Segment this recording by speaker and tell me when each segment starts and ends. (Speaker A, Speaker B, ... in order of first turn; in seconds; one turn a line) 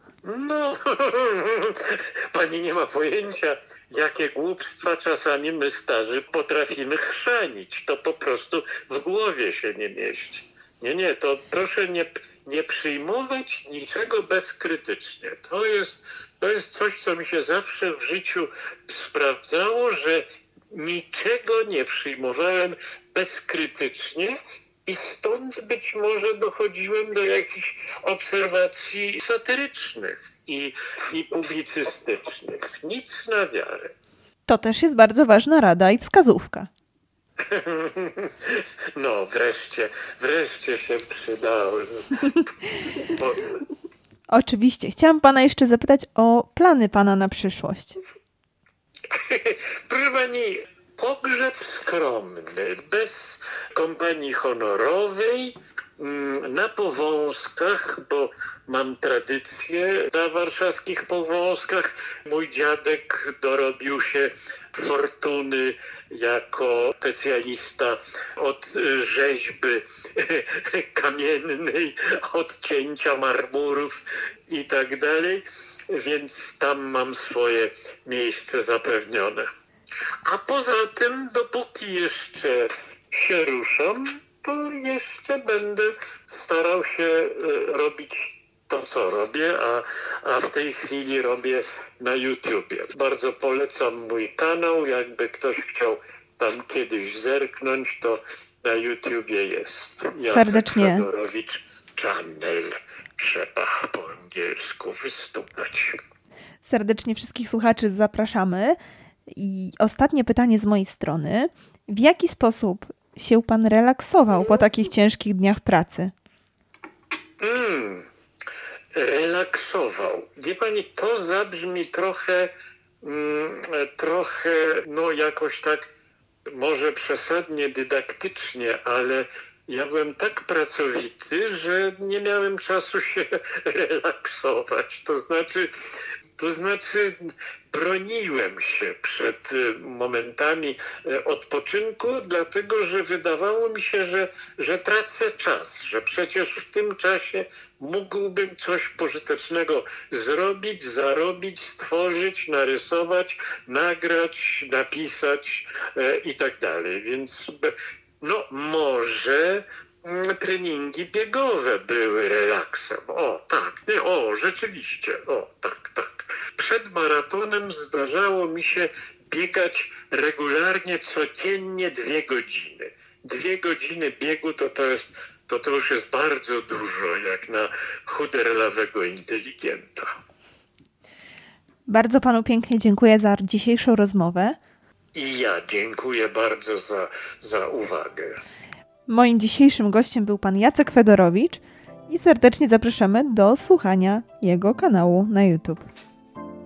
Speaker A: 0.2-33.9
Speaker B: 34.5-36.7
Speaker A: 37.4-42.2
Speaker A: 43.0-43.6
Speaker B: 44.3-48.0
Speaker A: 49.1-79.5
Speaker A: 80.2-106.0
Speaker B: 100.2-101.0
Speaker B: 106.6-116.1
Speaker A: 117.4-118.1
Speaker A: 118.9-125.9
Speaker A: 126.5-135.7
Speaker A: 136.4-180.1
Speaker B: 181.9-184.6
Speaker A: 185.1-188.4
Speaker B: 189.1-195.9